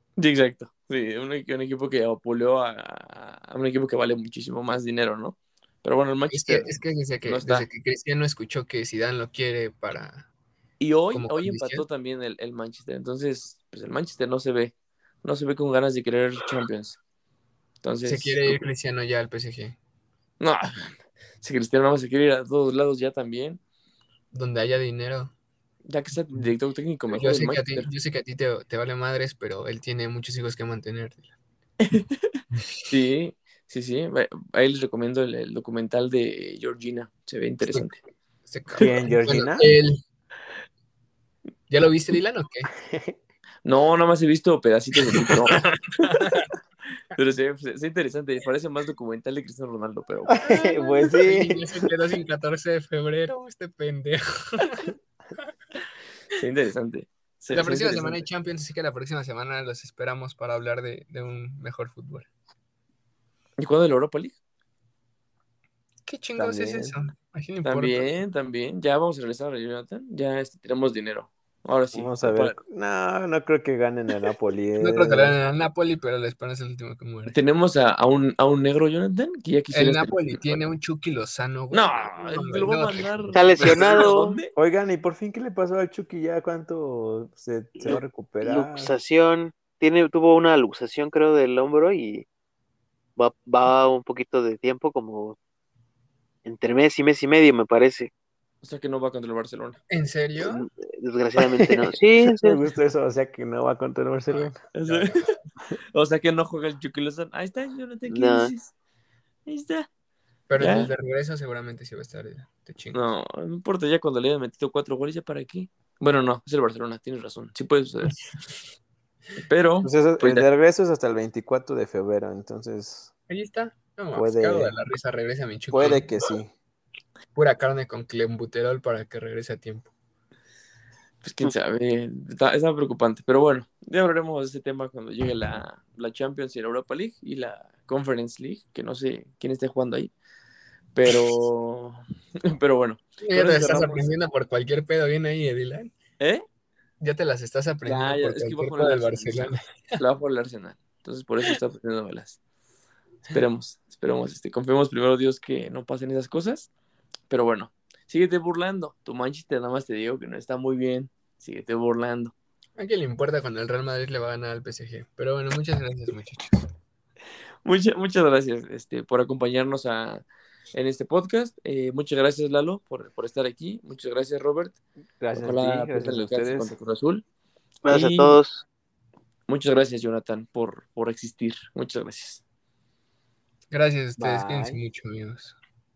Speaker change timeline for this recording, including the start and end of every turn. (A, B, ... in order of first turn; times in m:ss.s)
0:00.2-0:07.7 A
0:06.3-0:10.3 B
0:10.8-0:17.0 A
0:11.1-0:11.8 B
0:17.8-0:18.4 A
0:18.0-0:19.8 B
0:20.4-0:23.6 A
0:24.3-0:25.3 B
0:25.9-0:27.9 A
0:27.1-0:31.3 B
0:31.8-0:37.9 A
0:37.7-0:37.9 B
0:38.5-0:40.0 B
0:38.7-0:39.7 C
0:41.7-0:42.7 B
0:42.9-0:43.2 C
0:43.6-0:45.6 A
0:45.6-0:46.5 B
0:47.1-0:50.4 A
0:50.3-0:51.9 C
0:50.4-0:54.9 B
0:56.4-0:58.3 A
0:57.5-1:02.3 B
1:03.6-1:04.4 A
1:06.1-1:08.2 B
1:06.4-1:07.0 C
1:07.6-1:12.6 A
1:11.9-1:15.4 C
1:14.8-1:17.4 B
1:17.3-1:20.6 A
1:19.7-1:23.9 B
1:21.7-1:24.5 A
1:23.3-1:24.4 D
1:24.6-1:28.9 C
1:27.8-1:32.3 D
1:33.2-1:35.4 D
1:36.4-1:38.1 D
1:38.6-1:39.8 A
1:39.9-1:40.6 B
1:40.4-1:42.6 D
1:41.4-1:45.2 C
1:44.8-1:45.3 A
1:45.9-1:48.7 A
1:48.1-1:48.5 D
1:49.5-1:49.9 A
1:50.5-1:53.1 B
1:50.6-1:50.9 A
1:52.9-1:58.2 A
1:59.5-2:00.5 A
1:59.8-2:03.1 C
2:03.3-2:06.1 B
2:04.1-2:04.8 C
2:05.7-2:06.5 C
2:07.4-2:09.9 B
2:11.2-2:20.1 A
2:21.0-2:24.1 A
2:23.2-2:25.9 B
2:27.0-2:30.0 B
2:27.8-2:32.4 A
2:33.3-2:36.7 A
2:37.3-2:42.3 A
2:42.8-2:46.7 B
2:47.6-2:54.8 A
2:55.2-2:56.7 C
2:55.4-2:57.2 A
2:57.8-2:58.6 D
2:57.9-2:58.4 A
2:59.5-3:02.4 A
3:03.7-3:05.6 B
3:04.2-3:04.8 C